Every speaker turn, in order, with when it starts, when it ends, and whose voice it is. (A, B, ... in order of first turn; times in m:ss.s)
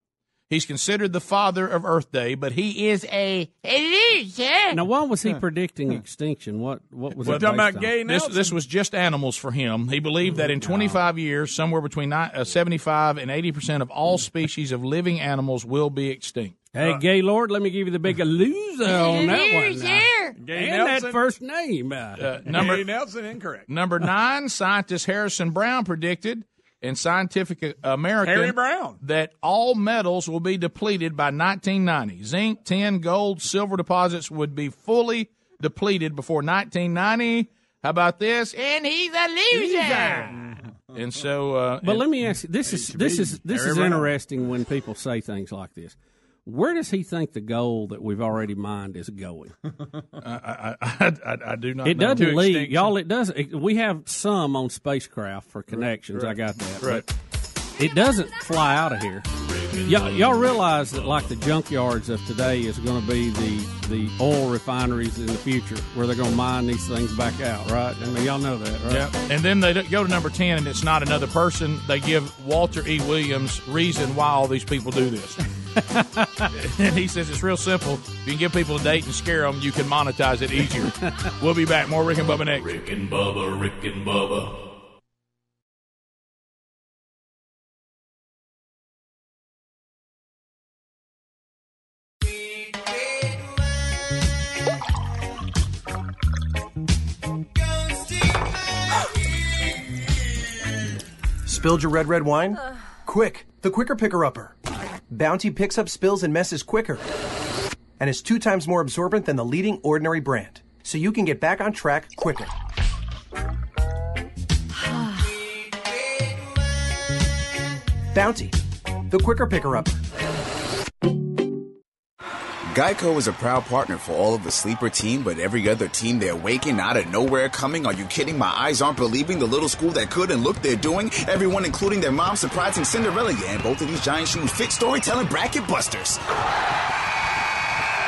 0:00.5-0:04.8 A
0:04.7-0:08.0 B
0:07.2-0:08.5 C
0:07.2-0:16.7 A
0:10.6-0:11.0 B
0:16.7-0:22.3 B
0:19.0-0:20.3 A
0:20.4-0:21.2 C
0:22.2-0:22.9 A
0:22.4-0:23.7 C
0:23.7-0:42.1 A
0:28.2-0:29.0 C
0:39.5-0:40.3 B
0:41.8-0:49.5 B
0:42.9-0:44.1 A
0:50.2-0:52.6 A
0:51.8-0:57.0 B
0:52.1-0:52.9 C
0:56.8-0:57.0 A
0:57.8-0:59.2 B
0:59.4-1:01.2 D
0:59.8-1:09.1 B
1:08.9-1:15.4 A
1:16.5-1:22.7 A
1:22.4-1:24.6 D
1:41.4-1:44.5 E
1:45.1-1:47.1 E
1:48.0-1:52.5 E
1:58.1-1:58.6 E
1:59.1-2:00.0 E
2:02.7-2:16.2 F